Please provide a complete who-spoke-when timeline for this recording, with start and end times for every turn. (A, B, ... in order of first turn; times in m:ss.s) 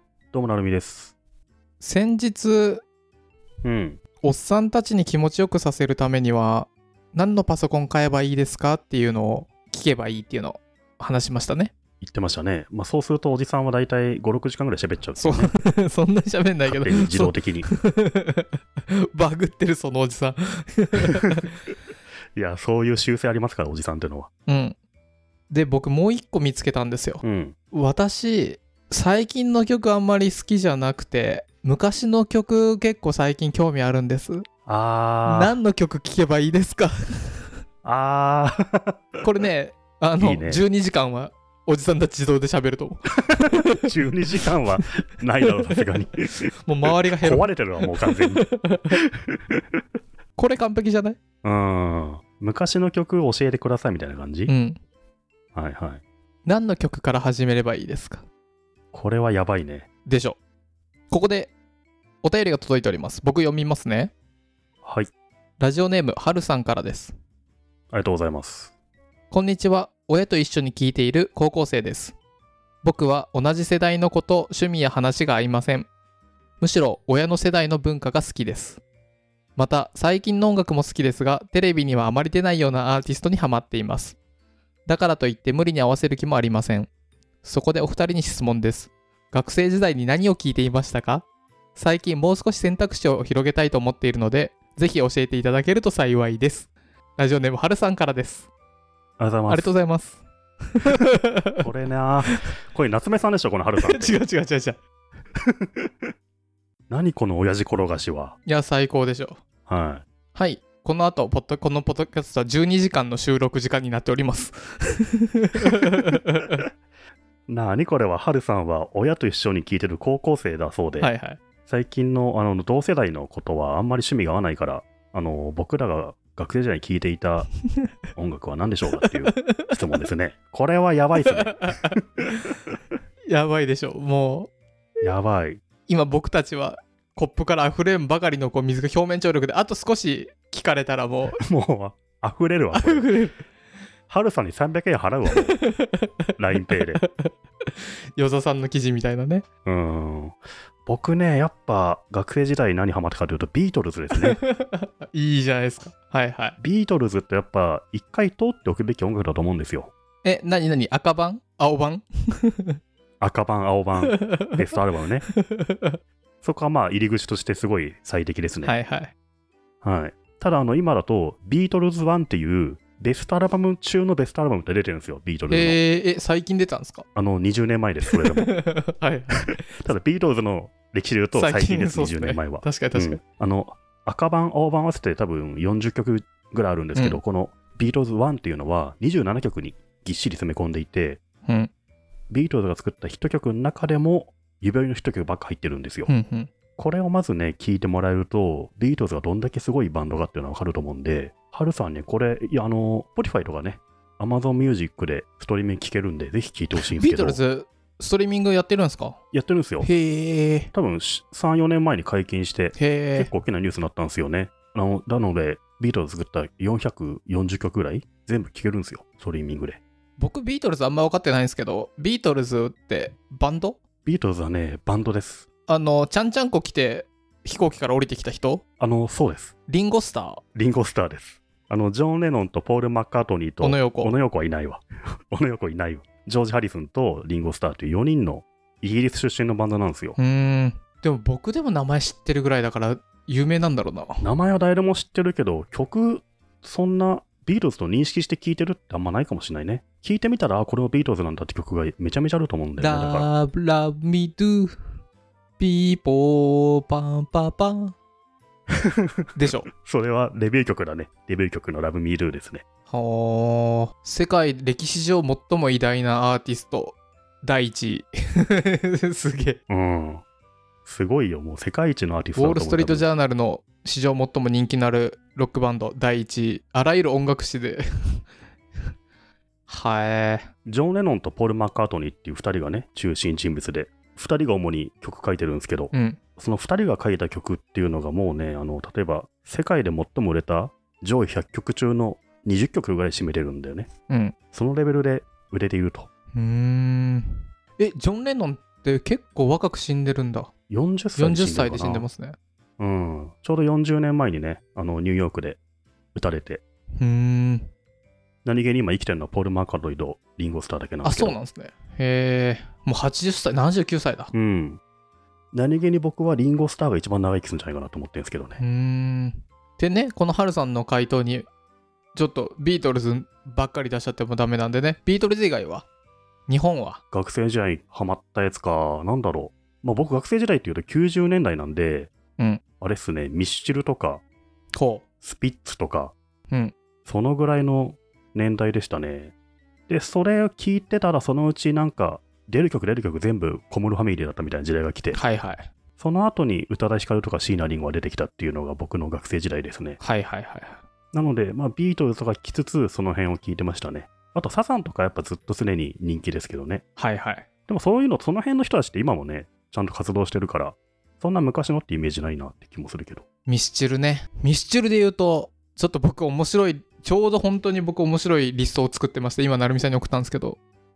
0:00.3-0:01.2 A
0:01.8-0:02.8 B
0:03.6-0:04.0 A
0:04.2-0:11.7 B
0:12.0-0:15.5 A
0:15.2-0:21.5 B
0:16.6-0:17.7 A
0:22.4-0:24.3 A
0:24.5-0:24.8 B
0:25.5-0:34.5 B
0:27.2-0:27.6 A
0:34.7-0:35.6 A
0:35.2-0:37.5 B
0:37.8-0:39.2 A
0:39.2-0:43.8 B
0:40.2-0:40.6 A
0:43.3-0:49.6 A
0:46.6-0:49.0 B
0:50.4-0:51.2 B
0:51.4-0:54.5 A
0:54.5-0:54.8 B
0:55.6-0:56.0 A
0:56.4-0:58.2 B
0:58.9-0:59.9 A
1:00.1-1:00.4 B
1:01.1-1:01.5 B
1:02.2-1:04.1 B
1:04.8-1:05.1 A
1:05.6-1:07.2 B
1:07.9-1:08.7 A
1:09.3-1:12.2 B
1:12.8-1:15.9 B
1:16.6-1:18.8 B
1:19.6-1:24.2 B
1:24.9-1:26.9 B
1:27.4-1:38.5 B
1:39.2-1:39.7 A
1:39.5-1:40.2 B
1:40.8-1:41.6 B
1:41.6-1:44.2 A
1:43.8-1:44.8 B
1:45.4-1:45.9 A
1:46.9-1:48.4 A
1:48.5-1:49.4 B
1:49.7-1:50.0 A
1:50.4-1:56.6 B
1:57.5-2:01.1 A
2:01.0-2:01.4 B
2:01.7-2:07.6 A
2:08.2-2:12.3 A
2:09.0-2:09.7 B
2:11.3-2:12.0 B
2:13.3-2:14.5 B
2:15.0-2:15.6 A
2:15.9-2:21.4 B
2:21.4-2:23.1 A
2:22.7-2:23.4 B
2:24.1-2:25.6 A
2:25.4-2:26.1 B
2:26.4-2:27.0 A
2:26.7-2:29.4 B
2:29.6-2:34.4 A
2:34.2-2:36.6 B
2:36.6-2:39.9 A
2:40.2-2:42.8 B
2:43.2-2:45.3 A
2:44.0-2:44.6 B
2:45.4-2:46.0 B
2:46.4-2:48.8 A
2:48.6-2:49.1 B
2:49.8-2:55.8 A
2:55.5-2:57.0 B
2:57.2-2:58.5 A
2:58.3-2:59.6 B
2:59.4-3:11.2 A
3:01.3-3:03.2 B
3:07.0-3:07.2 B
3:11.5-3:11.7 B
3:12.3-3:16.1 A
3:16.1-3:16.5 B
3:16.8-3:27.4 A
3:26.8-3:29.2 B
3:29.3-3:29.9 A
3:29.8-3:30.7 B
3:30.7-3:39.8 A
3:32.8-3:33.3 B
3:40.2-3:43.8 B
3:44.0-3:45.5 A
3:45.7-3:48.6 B
3:48.8-3:49.5 A
3:49.7-3:50.4 B
3:50.6-4:00.2 A
3:53.6-3:54.2 B
4:00.2-4:04.2 B
4:04.2-4:13.3 A
4:12.8-4:14.8 B
4:15.6-4:18.0 B
4:18.9-4:22.6 A
4:19.4-4:19.7 B
4:22.9-4:29.6 B
4:29.7-4:30.2 A
4:30.8-4:33.0 A
4:32.4-4:38.2 B
4:39.7-4:40.5 B
4:40.7-4:53.9 A
4:45.9-4:46.2 B
4:54.1-4:54.4 B
4:54.5-4:56.1 A
4:56.3-5:00.5 B
5:00.7-5:02.1 A
5:01.2-5:02.4 B
5:02.8-5:05.6 A
5:06.2-5:06.6 A
5:07.0-5:07.7 B
5:08.4-5:11.4 A
5:11.0-5:14.3 B
5:14.3-5:14.8 A
5:15.5-5:18.6 A
5:18.6-5:21.5 B
5:22.2-5:25.9 B
5:26.5-5:27.0 B
5:27.1-5:32.1 A
5:32.8-5:34.2 A
5:34.7-5:35.0 B
5:35.2-5:36.2 A
5:37.1-5:39.3 A
5:39.9-5:45.2 A
5:45.1-5:45.7 B
5:46.0-5:50.0 A
5:50.0-5:50.8 B
5:51.1-5:56.8 A
5:57.0-5:57.5 B
5:57.7-6:03.2 A
6:03.5-6:10.6 B